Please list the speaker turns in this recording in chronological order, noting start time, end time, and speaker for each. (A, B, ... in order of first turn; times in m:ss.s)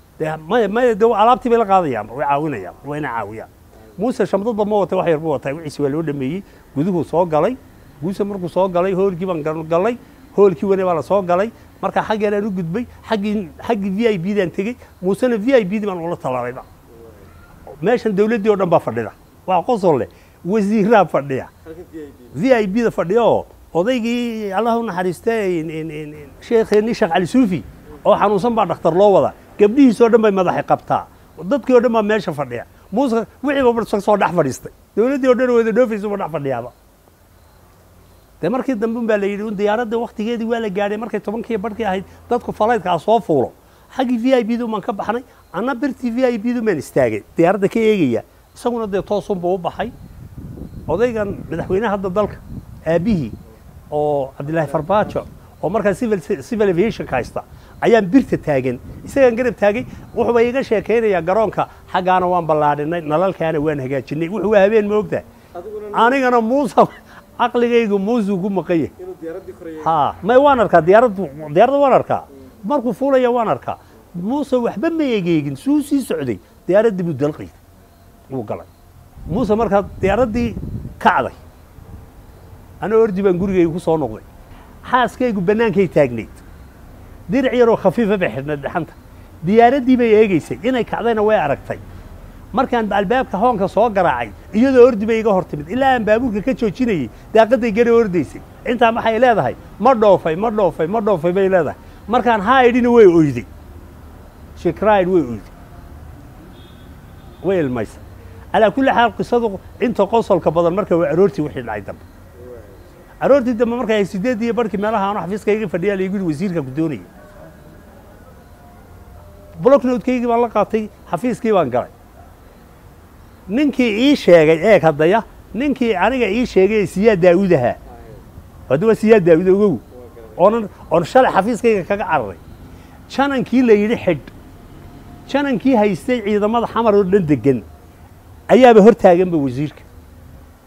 0:00.2-0:16.7 A
0:17.7-0:21.5 A
0:21.6-0:22.4 B
0:22.3-0:36.7 A
0:38.4-0:49.9 A
0:50.9-0:53.4 A
0:53.9-1:05.2 A
1:05.6-1:06.2 B
1:05.9-1:08.9 A
1:09.0-1:10.0 B
1:09.8-1:17.6 A
1:18.3-1:18.7 A
1:19.3-1:21.4 A
1:22.8-1:24.3 A
1:24.8-1:26.4 A
1:27.3-1:31.8 A
1:32.5-1:43.5 A
1:44.6-1:45.5 A
1:47.4-1:48.0 A
1:48.5-1:52.0 A
1:52.4-1:52.8 B
1:53.2-1:57.1 A
1:59.6-2:01.9 A
2:03.5-2:07.8 A
2:07.9-2:08.2 B
2:08.7-2:09.8 A
2:09.9-2:10.5 B
2:10.4-2:12.4 A
2:13.1-2:14.3 A
2:15.3-2:17.7 A
2:18.5-2:19.9 A